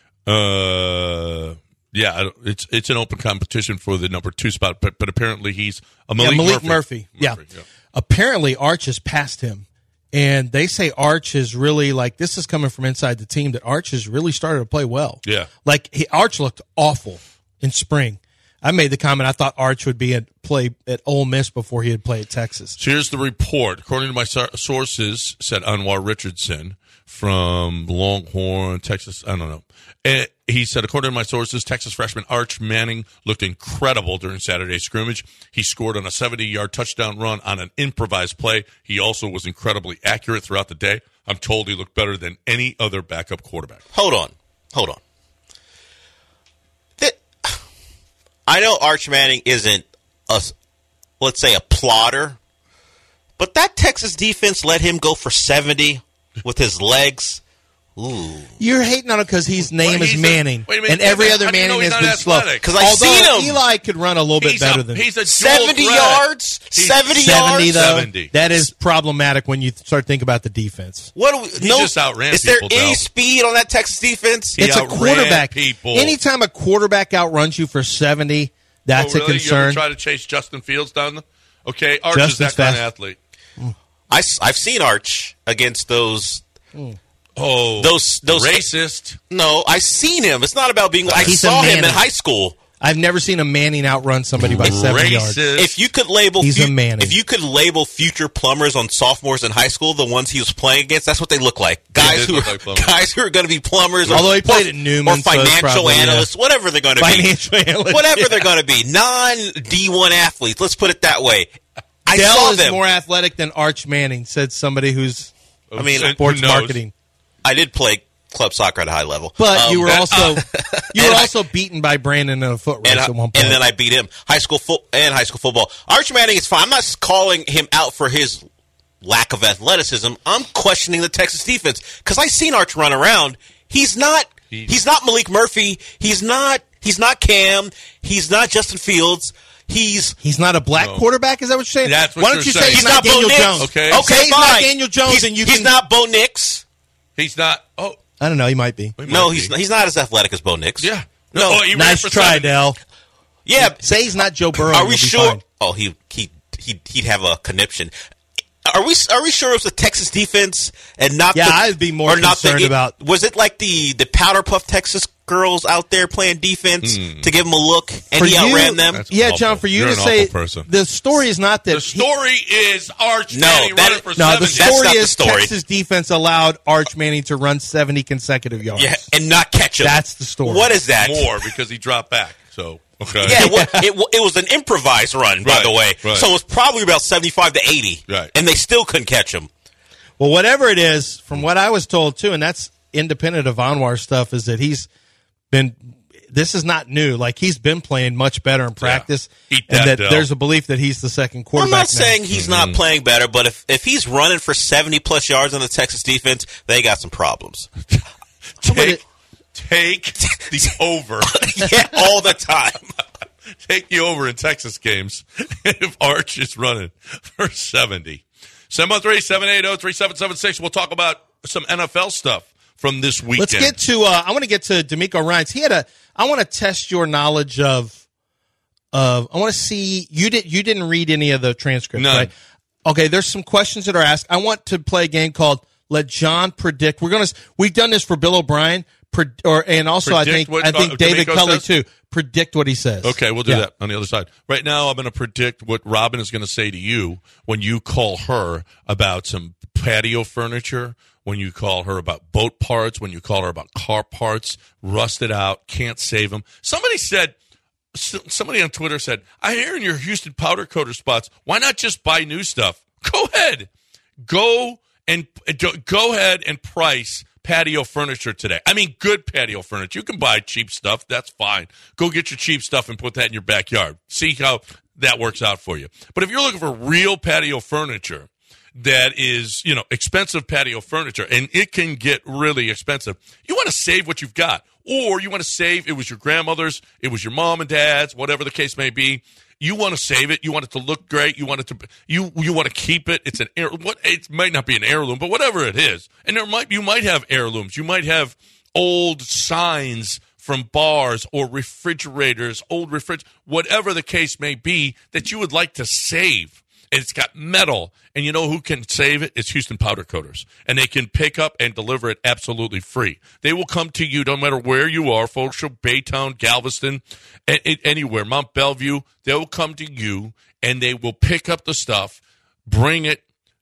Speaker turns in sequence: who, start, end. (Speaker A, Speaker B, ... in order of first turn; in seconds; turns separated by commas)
Speaker A: 0.2-7.6, Speaker B: 6.2-7.4, Speaker B: 7.9-22.8, Speaker A: 15.2-15.5, Speaker A: 22.8-43.8, Speaker C: 43.9-45.0, Speaker C: 47.0-47.6, Speaker C: 48.5-50.5, Speaker C: 51.2-52.4, Speaker C: 53.4-57.4, Speaker C: 58.0-58.6, Speaker B: 58.6-65.0, Speaker A: 59.6-62.7, Speaker C: 62.6-63.6, Speaker A: 64.4-68.3, Speaker C: 65.2-67.9, Speaker B: 67.1-71.1, Speaker C: 71.2-74.6, Speaker A: 71.6-73.0, Speaker A: 74.5-76.2, Speaker B: 74.6-79.8, Speaker A: 78.9-83.2, Speaker B: 82.1-82.9, Speaker C: 84.1-86.4, Speaker A: 87.3-89.2, Speaker C: 87.8-88.7, Speaker C: 89.3-92.6, Speaker A: 91.0-91.3, Speaker B: 91.2-92.0, Speaker B: 92.8-95.4, Speaker A: 94.4-95.8, Speaker C: 94.6-94.9, Speaker C: 95.5-107.3, Speaker B: 96.4-97.2, Speaker A: 102.0-103.0, Speaker B: 104.1-106.3, Speaker B: 107.0-108.5, Speaker C: 107.9-111.5, Speaker C: 112.0-112.8, Speaker B: 112.1-116.9, Speaker A: 115.7-116.8, Speaker C: 115.8-116.2, Speaker C: 117.4-121.3, Speaker B: 119.4-123.6, Speaker C: 122.8-128.4, Speaker C: 129.0-140.2, Speaker B: 140.2-145.7, Speaker A: 140.8-141.0, Speaker A: 141.8-143.0, Speaker C: 142.7-146.6, Speaker A: 143.6-144.1, Speaker A: 147.2-148.0, Speaker B: 148.2-148.9, Speaker A: 149.0-149.5, Speaker C: 149.1-151.7, Speaker A: 150.8-152.5, Speaker B: 151.7-152.8, Speaker C: 153.4-157.9, Speaker B: 153.6-155.4, Speaker C: 158.6-169.0, Speaker B: 161.3-162.9, Speaker A: 166.8-167.3, Speaker B: 168.2-172.0, Speaker A: 168.9-170.7, Speaker A: 171.7-174.8, Speaker C: 173.3-175.5, Speaker B: 174.2-179.1, Speaker C: 178.7-181.5, Speaker B: 179.8-180.7, Speaker A: 181.0-183.4, Speaker C: 183.2-189.5, Speaker B: 183.3-183.8, Speaker A: 185.4-186.3, Speaker B: 190.2-194.9, Speaker B: 195.5-202.2, Speaker A: 198.8-200.3, Speaker C: 201.5-207.7, Speaker A: 202.3-202.8, Speaker B: 208.6-209.0, Speaker A: 208.6-209.0, Speaker A: 209.5-211.6, Speaker C: 210.4-212.9, Speaker A: 213.6-223.8, Speaker B: 223.4-228.0, Speaker B: 228.9-232.3, Speaker A: 232.0-232.3, Speaker B: 232.8-243.7, Speaker A: 240.1-241.6, Speaker A: 243.0-257.3, Speaker A: 257.9-263.7, Speaker A: 264.2-323.2